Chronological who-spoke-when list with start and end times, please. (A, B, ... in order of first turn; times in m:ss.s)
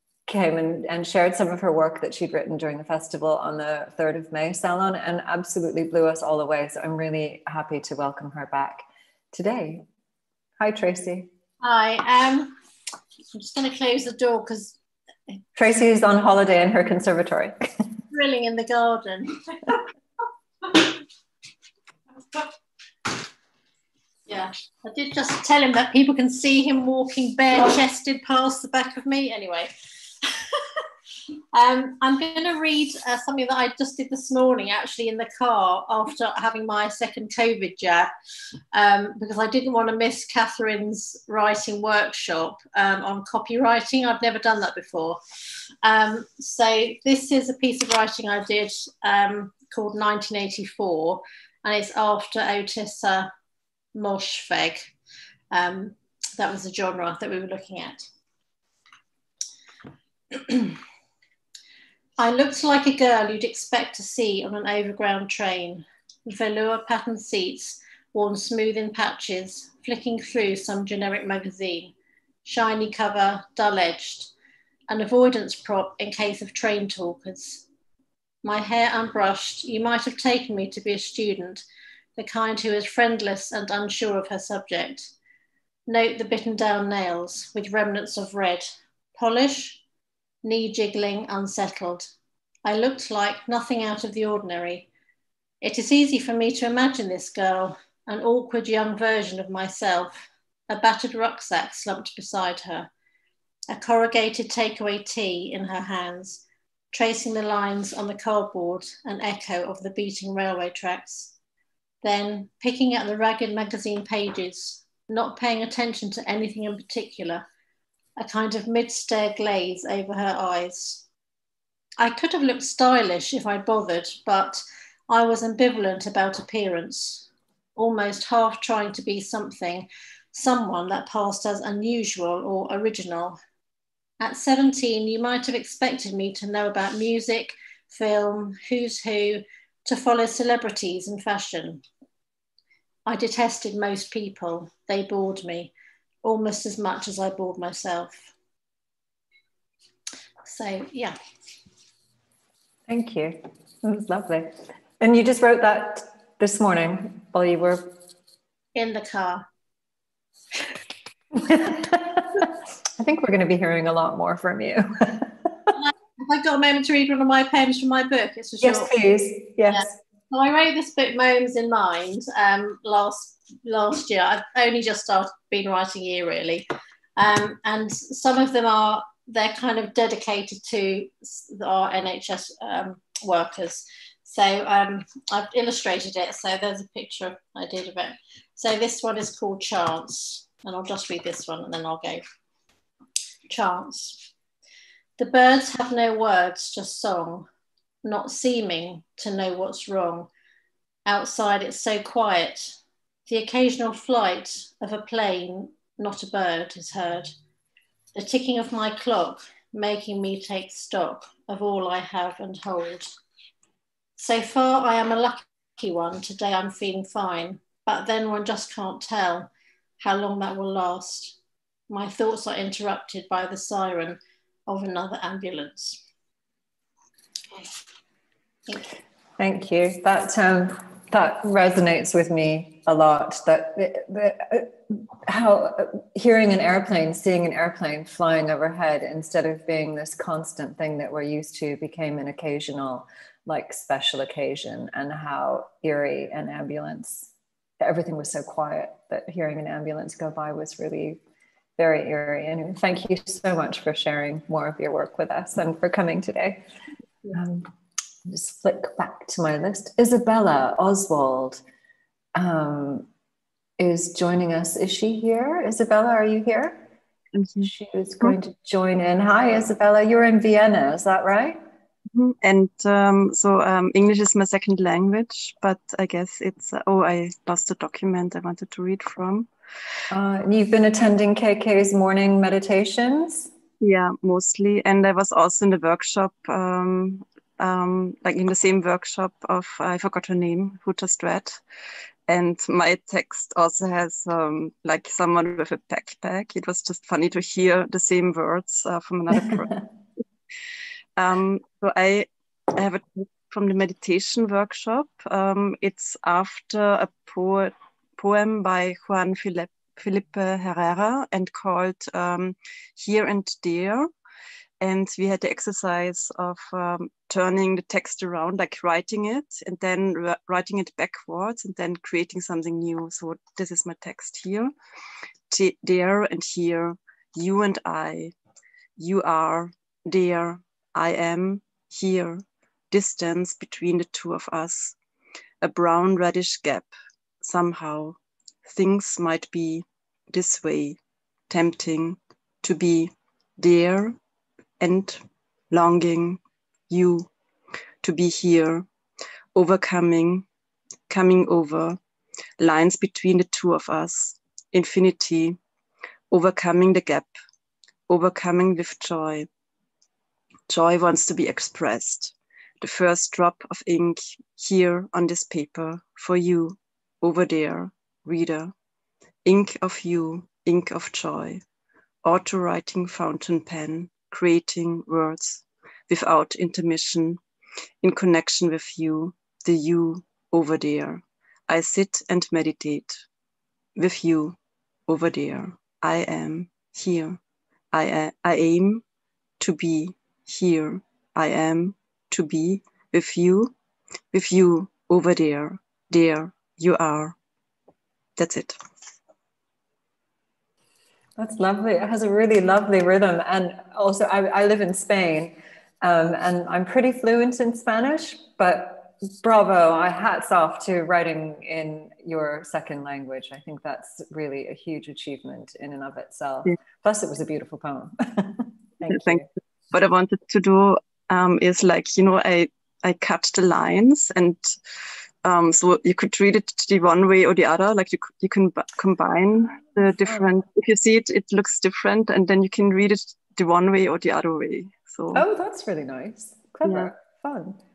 0:00.3-0:09.8 A
0:10.6-0:11.3 A
0:11.6-0:12.6 B
0:13.3-0:14.8 B
0:15.6-0:17.6 A
0:18.1-0:19.8 B
0:20.6-0:20.9 B
0:24.3-0:29.7 B
0:31.5-0:38.1 B
0:38.7-0:45.2 B
0:45.8-0:53.3 B
0:54.0-0:54.9 B
0:55.5-0:58.1 B
1:00.3-1:00.8 B
1:02.2-1:11.9 B
1:12.4-1:14.3 B
1:14.9-1:17.7 B
1:18.4-1:21.6 B
1:22.2-1:25.1 B
1:25.9-1:29.8 B
1:30.4-1:32.1 B
1:32.6-1:34.9 B
1:35.6-1:42.9 B
1:43.7-1:51.3 B
1:52.0-1:57.5 B
1:58.2-2:01.0 B
2:02.0-2:13.4 B
2:14.2-2:21.8 B
2:23.1-2:25.7 B
2:26.2-2:28.3 B
2:30.4-2:31.2 B
2:32.9-2:38.0 A
2:38.8-2:39.4 B
2:41.3-2:45.7 A
2:45.8-2:48.9 B
2:48.6-2:50.0 A
2:49.7-3:12.2 B
3:13.5-3:14.3 B
3:15.2-3:17.5 B
3:18.0-3:20.3 B
3:21.1-3:27.4 B
3:28.2-3:33.1 B
3:34.2-3:41.4 B
3:41.9-3:46.0 B
3:49.4-4:11.2 A
4:11.8-4:16.6 A
4:17.3-4:17.7 A
4:18.2-4:21.6 A
4:22.4-4:23.1 A
4:23.8-4:26.9 A
4:27.3-4:27.7 C
4:27.6-4:31.6 A
4:32.1-4:39.5 C
4:40.1-4:43.5 A
4:43.8-4:51.6 C
4:52.3-4:59.9 C
5:01.2-5:14.1 C
5:14.8-5:24.7 C
5:25.5-5:28.3 C
5:29.0-5:35.0 C
5:35.6-5:36.9 C
5:37.4-5:41.0 C
5:41.5-5:44.2 C
5:44.8-5:47.3 C
5:48.0-5:48.9 C
5:49.5-5:50.5 C
5:51.1-5:52.0 C
5:52.6-5:55.6 C
5:56.3-5:57.3 C
5:58.1-5:59.5 C
6:00.7-6:08.7 C
6:09.4-6:11.6 C
6:12.2-6:17.4 C
6:18.0-6:23.2 C
6:24.0-6:24.6 C
6:25.1-6:27.4 C
6:27.9-6:29.0 C
6:29.6-6:33.7 C
6:34.3-6:37.4 C
6:38.4-6:38.8 C
6:41.4-6:59.5 A
6:59.9-7:04.7 C
7:05.4-7:15.4 C
7:15.3-7:17.8 A
7:16.8-7:17.1 C